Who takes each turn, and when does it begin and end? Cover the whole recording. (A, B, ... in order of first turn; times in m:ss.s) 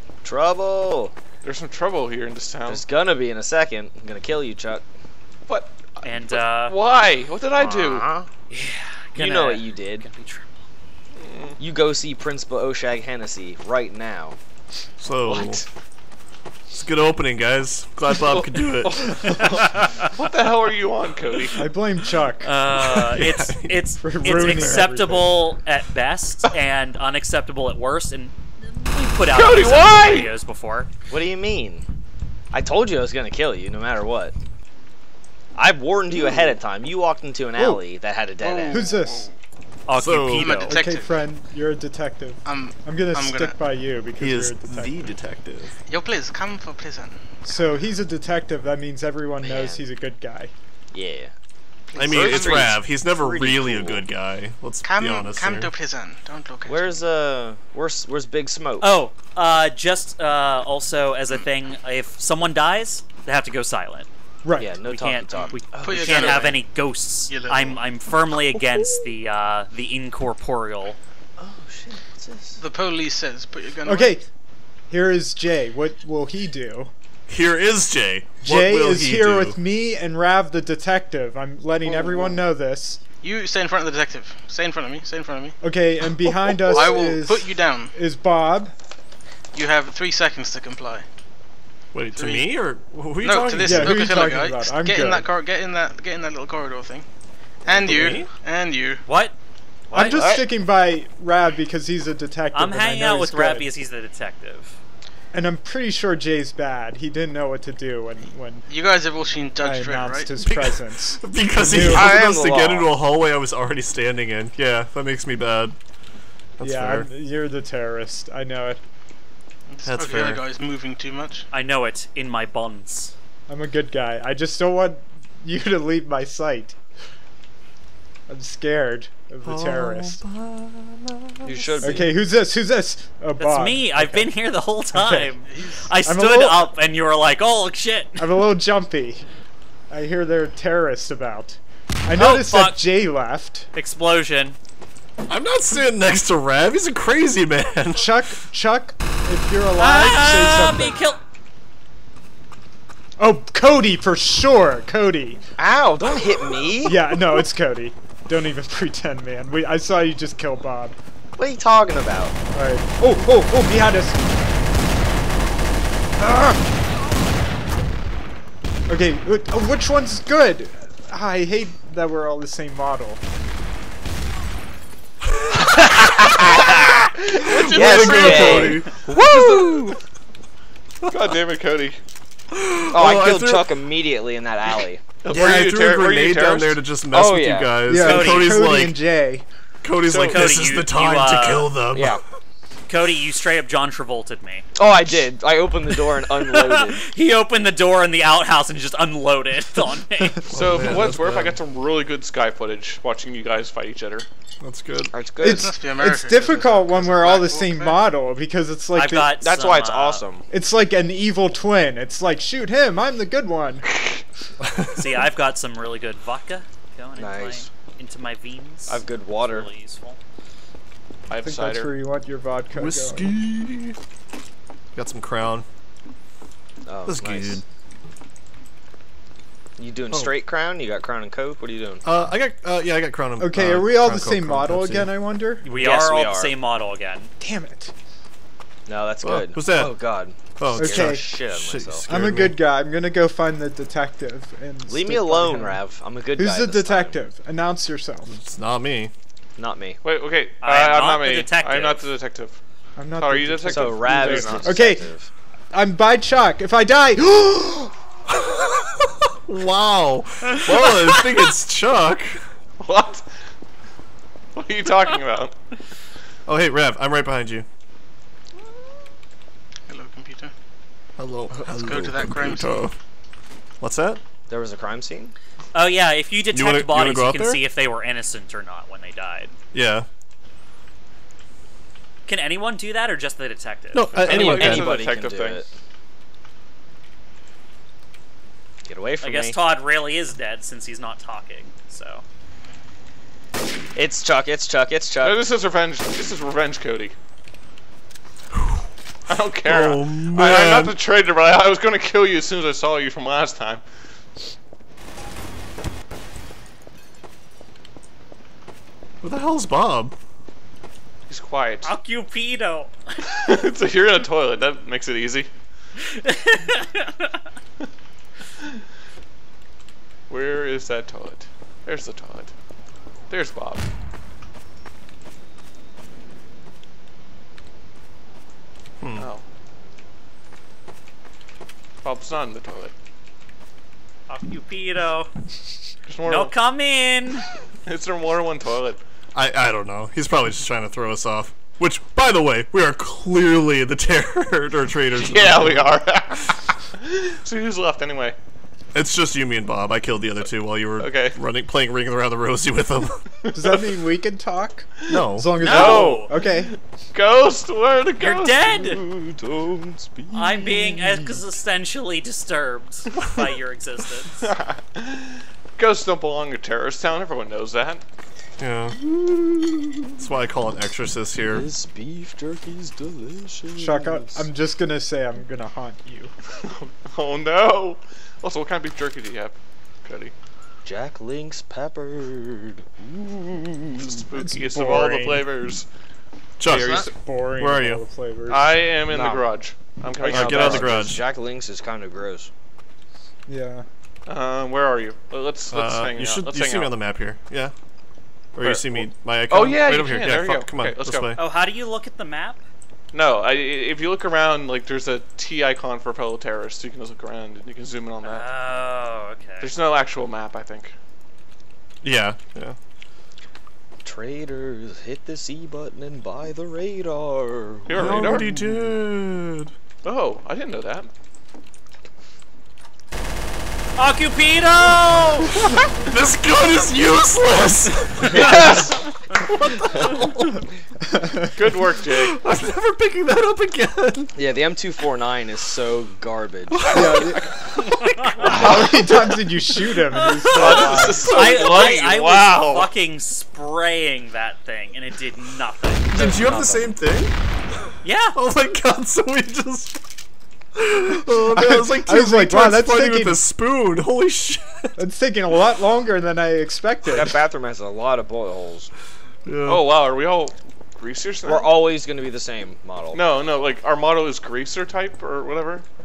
0:00.2-0:01.1 A
0:01.4-0:02.8 B
0:02.7-0:04.8 A
0:05.5-0:08.1 B
0:06.0-0:06.8 C
0:07.6-0:08.3 A
0:08.5-0:10.6 C
0:09.2-0:10.1 A
0:11.2-0:11.6 B
0:11.6-0:14.4 A
0:15.0-0:15.6 D
0:15.3-0:15.6 A
0:16.7-0:19.4 D
0:18.1-0:21.6 B
0:21.6-0:22.5 E
0:22.4-0:30.9 C
0:22.8-0:24.9 D
0:24.0-0:25.3 E
0:29.3-0:30.3 B
0:31.1-0:31.9 A
0:32.5-0:34.4 A
0:35.6-0:38.9 A
0:37.6-0:37.8 E
0:38.4-0:39.4 F
0:38.7-0:39.3 E
0:39.9-0:40.7 C
0:39.9-0:40.6 D
0:40.3-0:41.2 F
0:40.6-0:45.1 E
0:42.4-0:43.6 F
0:44.2-0:45.8 D
0:45.9-0:47.2 F
0:47.4-0:50.5 E
0:49.4-0:49.9 A
0:50.9-0:51.3 A
0:52.0-0:54.1 A
0:52.0-0:55.7 D
0:52.0-0:52.7 F
0:54.8-0:56.9 F
0:56.6-0:58.9 A
0:58.8-1:04.1 C
1:04.4-1:04.8 E
1:04.6-1:06.6 A
1:04.9-1:11.0 C
1:05.8-1:06.6 F
1:07.3-1:07.8 F
1:11.4-1:12.6 A
1:12.6-1:14.2 F
1:13.8-1:14.2 E
1:14.9-1:16.9 E
1:17.3-1:19.6 D
1:18.4-1:23.0 E
1:21.8-1:22.4 A
1:23.2-1:25.6 F
1:25.6-1:28.7 E
1:26.7-1:27.9 F
1:29.5-1:31.0 F
1:31.9-1:34.1 D
1:32.2-1:32.6 F
1:33.2-1:37.1 F
1:33.6-1:35.3 E
1:37.6-1:39.0 F
1:37.7-1:38.3 D
1:39.1-1:39.4 C
1:39.9-1:40.5 A
1:39.9-1:40.4 C
1:39.9-1:43.7 E
1:42.5-1:44.8 C
1:45.3-1:48.7 E
1:48.7-1:50.4 F
1:49.6-1:52.2 E
1:50.4-1:55.8 D
1:51.9-1:52.9 A
1:56.6-1:57.1 D
1:56.6-1:58.8 E
1:59.7-2:01.5 F
1:59.8-2:00.4 D
2:01.5-2:03.1 C
2:03.5-2:06.8 E
2:08.3-2:10.2 E
2:09.4-2:11.5 D
2:11.4-2:12.1 A
2:11.8-2:14.3 E
2:13.4-2:18.5 C
2:14.9-2:15.3 E
2:15.5-2:15.9 F
2:16.0-2:16.7 E
2:18.2-2:19.3 E
2:19.9-2:23.7 E
2:22.2-2:22.8 C
2:23.8-2:24.6 C
2:25.3-2:28.2 D
2:28.0-2:31.0 E
2:29.8-2:31.2 C
2:33.2-2:35.4 E
2:35.6-2:37.0 A
2:36.8-2:41.0 E
2:41.4-2:42.4 A
2:42.5-2:44.2 E
2:46.2-2:46.6 E
2:48.9-2:53.2 E
2:55.6-2:58.9 A
2:56.6-3:00.0 B
2:57.5-3:00.0 D
3:01.1-3:02.0 B
3:02.5-3:03.7 D
3:02.9-3:05.0 A
3:05.2-3:06.8 B
3:05.3-3:09.0 D
3:07.1-3:07.8 A
3:07.9-3:09.5 E
3:08.0-3:08.6 C
3:09.8-3:12.2 D
3:10.1-3:10.6 E
3:10.1-3:11.7 C
3:11.9-3:12.2 A
3:12.9-3:14.7 C
3:14.8-3:17.0 A
3:16.4-3:20.5 C
3:20.5-3:21.6 D
3:20.5-3:24.3 B
3:24.6-3:25.1 D
3:25.1-3:25.7 A
3:25.4-3:29.4 E
3:25.4-3:28.0 F
3:29.0-3:30.2 C
3:29.4-3:30.5 A
3:30.5-3:33.9 E
3:34.6-3:35.0 D
3:35.0-3:40.2 C
3:37.2-3:37.6 A
3:38.9-3:39.7 A
3:41.3-3:41.9 B
3:41.4-3:43.4 E
3:42.7-3:44.0 D
3:45.0-3:45.6 D
3:46.9-3:47.6 A
3:47.1-3:47.6 D
3:49.8-3:52.0 A
3:52.0-3:55.1 D
3:53.4-3:55.7 E
3:55.6-3:57.3 C
3:55.7-3:56.5 A
3:57.4-3:57.9 E
3:58.9-4:02.1 A
3:59.2-4:00.0 D
4:00.6-4:02.6 D
4:00.8-4:01.2 E
4:02.1-4:05.8 E
4:04.9-4:07.2 A
4:06.4-4:08.3 E
4:08.3-4:09.1 D
4:09.6-4:10.0 A
4:10.0-4:12.6 B
4:10.6-4:12.1 C
4:13.0-4:15.1 E
4:13.2-4:14.8 B
4:13.7-4:15.3 A
4:15.7-4:17.9 E
4:18.3-4:22.4 D
4:22.8-4:23.3 B
4:24.6-4:25.6 B
4:26.5-4:27.7 D
4:29.9-4:30.5 F
4:31.2-4:33.0 D
4:31.6-4:32.9 F
4:33.8-4:34.2 D
4:34.5-4:35.4 A
4:35.7-4:39.6 C
4:36.5-4:37.6 D
4:39.7-4:40.1 D
4:42.3-4:44.1 C
4:43.9-4:45.0 D
4:44.2-4:45.6 B
4:44.2-4:45.7 A
4:48.8-4:49.6 A
4:49.2-4:52.2 C
4:54.0-4:55.4 A
4:55.2-4:57.2 B
4:58.5-4:58.9 D
4:59.3-5:03.8 B
4:59.6-5:00.9 D
5:09.2-5:10.1 D
5:11.3-5:11.9 B
5:11.8-5:13.2 C
5:13.3-5:15.5 B
5:16.0-5:17.3 C
5:20.3-5:22.5 B
5:23.3-5:23.8 B
5:29.0-5:29.3 D
5:29.2-5:29.4 B
5:32.0-5:32.9 B
5:34.3-5:35.3 C
5:36.1-5:36.5 B
5:36.2-5:37.5 C
5:37.9-5:39.0 B
5:39.4-5:46.0 D
5:45.2-5:48.4 B
5:48.9-5:53.2 D
5:51.0-5:51.4 B
5:53.5-5:56.8 E
5:55.1-5:56.1 D
5:55.6-5:56.3 C
5:55.6-5:56.6 B
5:57.1-5:58.8 B
5:58.2-5:59.0 C
5:58.6-6:01.4 A
6:00.3-6:04.5 C
6:04.4-6:08.0 B
6:08.6-6:09.0 D
6:09.0-6:10.2 A
6:10.2-6:11.7 D
6:11.5-6:14.5 A
6:13.8-6:16.3 E
6:16.8-6:20.3 B
6:20.8-6:24.3 A
6:24.0-6:25.9 B
6:24.4-6:25.5 E
6:26.6-6:28.0 D
6:26.7-6:28.8 E
6:26.7-6:27.1 B
6:26.8-6:27.1 F
6:28.5-6:30.9 B
6:29.1-6:29.4 A
6:30.2-6:30.9 E
6:30.2-6:32.5 A
6:30.3-6:31.2 D
6:33.5-6:33.9 E
6:34.3-6:36.9 B
6:35.7-6:37.7 D
6:38.6-6:41.4 D
6:38.6-6:41.4 B
6:41.4-6:42.6 C
6:43.1-6:48.5 B
6:48.2-6:49.7 C
6:49.6-6:51.0 B
6:52.0-6:52.8 D
6:54.0-6:58.2 A
6:57.9-6:58.5 B
6:58.0-6:59.7 D
6:58.0-6:58.9 E
7:00.0-7:01.1 B
7:04.0-7:05.7 C
7:05.5-7:08.8 D
7:08.3-7:09.1 B
7:09.4-7:10.6 D
7:11.1-7:11.5 E
7:11.6-7:12.4 B
7:12.1-7:14.3 D
7:14.4-7:17.3 A
7:16.7-7:18.9 D
7:16.9-7:17.5 E
7:18.4-7:21.4 E
7:18.4-7:19.3 B
7:20.1-7:26.9 C
7:20.5-7:22.9 B
7:20.5-7:21.0 D
7:26.1-7:30.0 D
7:28.0-7:28.4 C
7:30.8-7:34.9 D
7:31.4-7:33.4 E
7:35.0-7:37.3 E
7:37.1-7:38.9 A
7:39.5-7:39.8 D
7:39.7-7:41.8 B
7:41.4-7:43.2 A
7:43.1-7:45.8 B